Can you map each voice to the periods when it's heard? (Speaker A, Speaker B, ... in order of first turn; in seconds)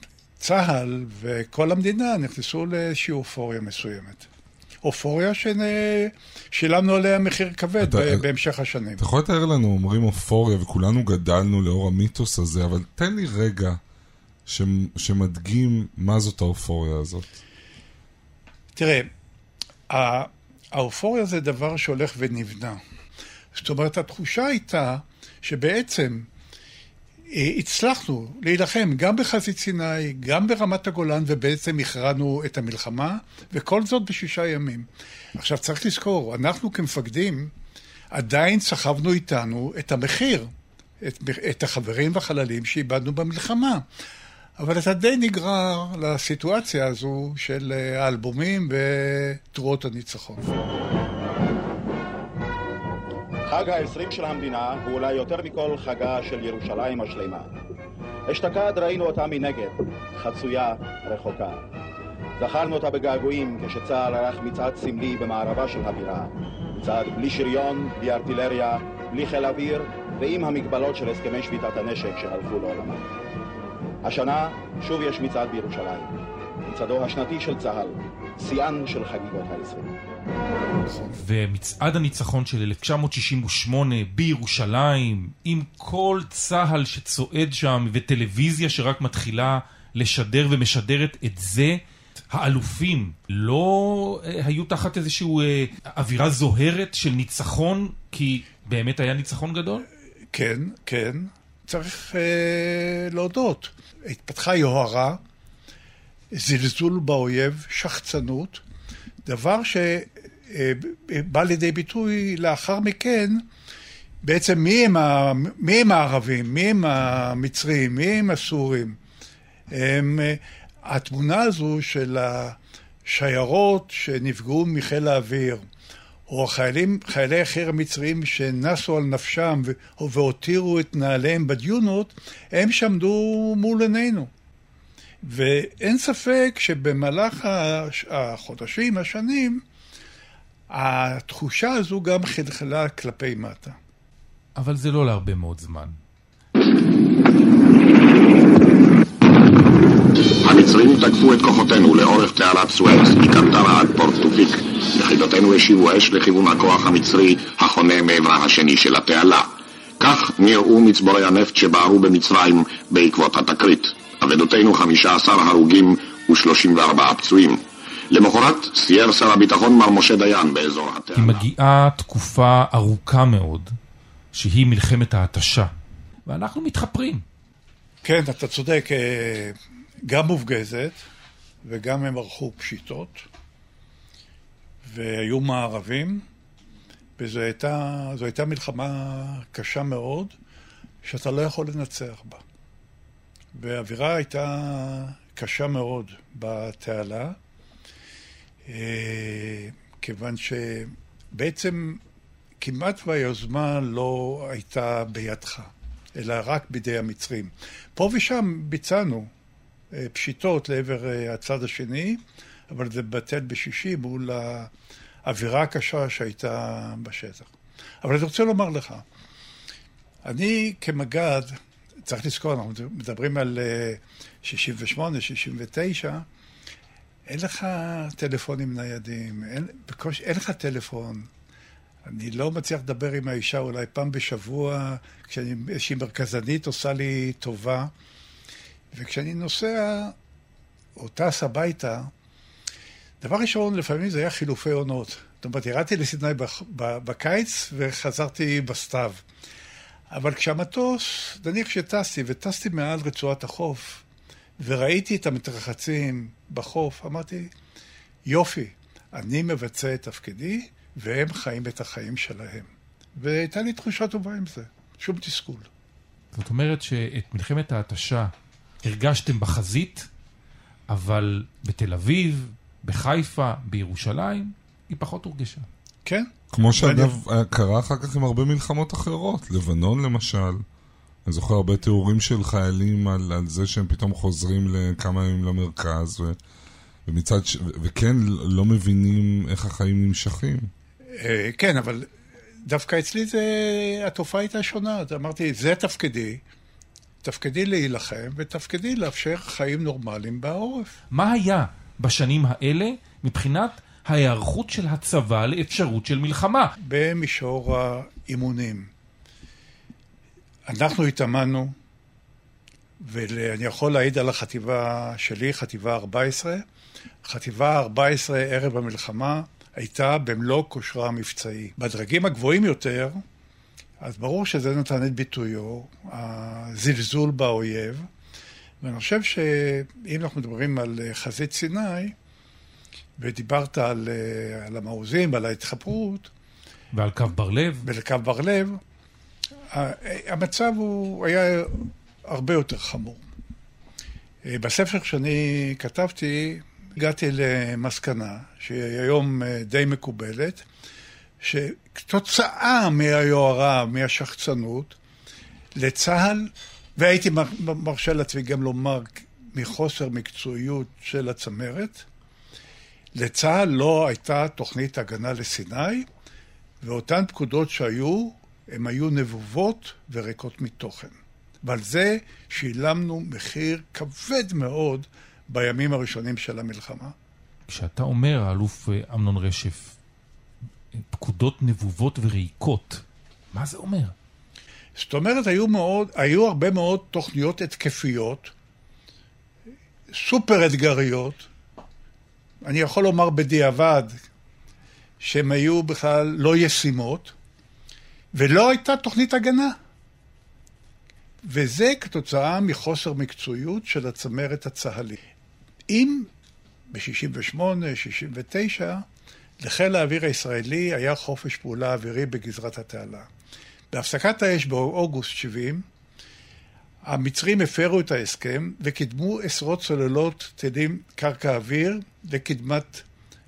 Speaker A: 0.4-4.3, 4.8-9.0, 18.8-19.1, 19.9-22.8, 23.5-26.3, 27.3-37.5, 38.1-40.5, 41.0-43.8, 44.6-50.5, 100.3-105.2, 106.3-108.6, 109.2-113.4, 114.2-119.0, 119.7-125.6, 126.3-134.3, 135.2-139.6, 140.7-143.8, 178.0-179.6, 180.1-181.0, 181.6-183.2, 184.8-186.2, 187.2-190.3, 191.0-192.4, 193.5-197.4, 198.7-202.0, 202.6-209.3, 209.9-214.7, 215.2-217.5, 218.0-219.0, 220.2-226.2, 227.3-231.3, 232.1-237.9, 238.9-240.1, 241.0-242.1, 243.2-249.2, 250.1-254.0, 254.6-257.5, 258.2-265.7, 276.1-277.1, 291.2-292.1, 292.6-296.4, 297.2-300.9, 306.9-308.9, 310.7-311.7, 313.0-316.6, 317.2-323.2, 324.0-328.1, 328.8-332.1, 333.2-336.3, 337.8-338.8, 339.7-343.2, 344.4-350.6, 351.4-355.0, 355.8-362.1, 363.1-366.1, 366.8-377.1, 385.0-388.5, 390.1-391.5, 392.6-394.1, 395.2-397.3, 398.3-399.8, 401.4-405.2, 405.9-406.3, 406.9-409.0, 409.6-413.3, 413.9-415.8, 417.1-423.0
Speaker B: 7.8-8.2, 9.0-13.8, 14.4-17.2, 276.5-280.6, 281.2-286.4, 287.1-290.7
Speaker C: 53.5-57.5, 58.3-61.6, 62.4-73.0, 74.0-76.1, 76.6-79.9
Speaker D: 81.1-99.8, 144.6-146.0, 171.1-173.7, 174.3-175.7, 176.3-177.2, 266.3-268.3, 268.8-270.1, 270.9-275.6, 301.1-306.7, 336.9-337.9, 377.7-379.9, 381.0-384.1
Speaker E: 150.4-171.4